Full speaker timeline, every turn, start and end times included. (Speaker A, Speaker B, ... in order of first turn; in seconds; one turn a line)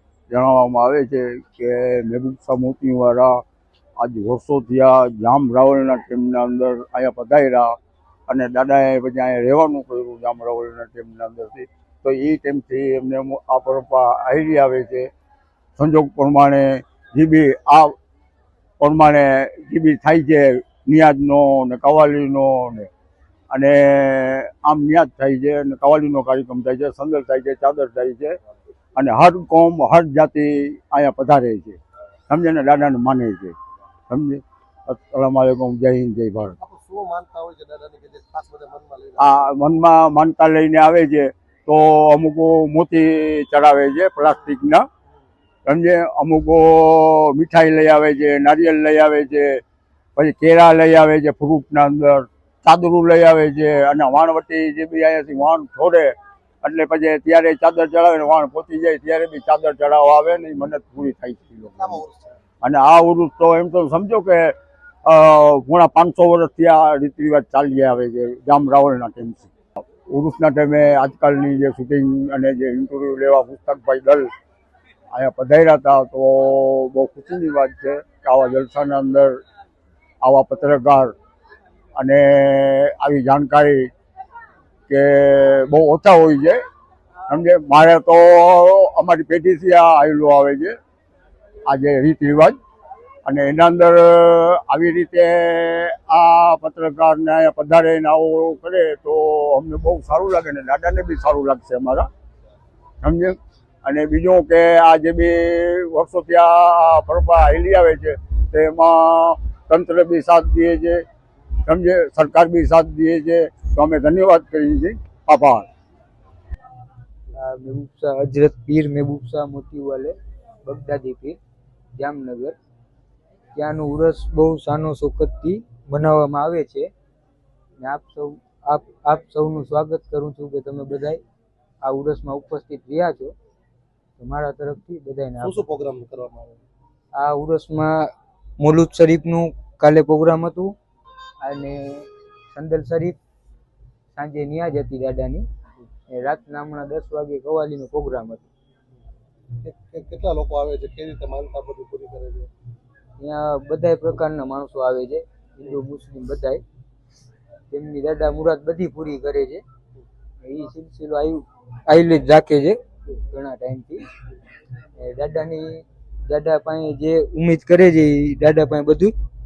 Speaker A: 0.3-3.3
Speaker A: 4.0-7.7
Speaker A: 8.3-15.1
Speaker A: 15.8-17.9
Speaker A: 18.8-22.9
Speaker A: 23.5-28.3
Speaker A: 28.9-31.8
Speaker A: 32.3-33.5
Speaker A: 34.1-36.6
Speaker B: 36.6-39.5
Speaker A: 39.2-44.9
Speaker A: 45.7-49.5
Speaker A: 50.2-56.1
Speaker A: 56.6-62.0
Speaker B: 61.8-62.4
Speaker A: 62.6-69.5
Speaker A: 70.1-74.3
Speaker A: 75.1-79.4
Speaker A: 80.2-81.1
Speaker A: 82.0-83.9
Speaker A: 84.9-86.6
Speaker A: 87.3-90.8
Speaker A: 91.7-92.6
Speaker A: 93.2-102.1
Speaker A: 103.0-111.0
Speaker A: 111.7-115.7
Speaker C: 117.3-121.4
Speaker C: 122.0-122.5
Speaker C: 123.5-126.9
Speaker C: 127.8-131.2
Speaker C: 131.8-133.3
Speaker C: 134.2-135.6
Speaker B: 135.4-136.6
Speaker C: 137.2-140.8
Speaker C: 141.4-143.2
Speaker C: 144.2-145.5
Speaker C: 146.1-148.5
Speaker B: 149.6-152.5
Speaker C: 153.2-156.6
Speaker C: 157.7-159.6
Speaker C: 160.4-164.1
Speaker C: 165.0-169.1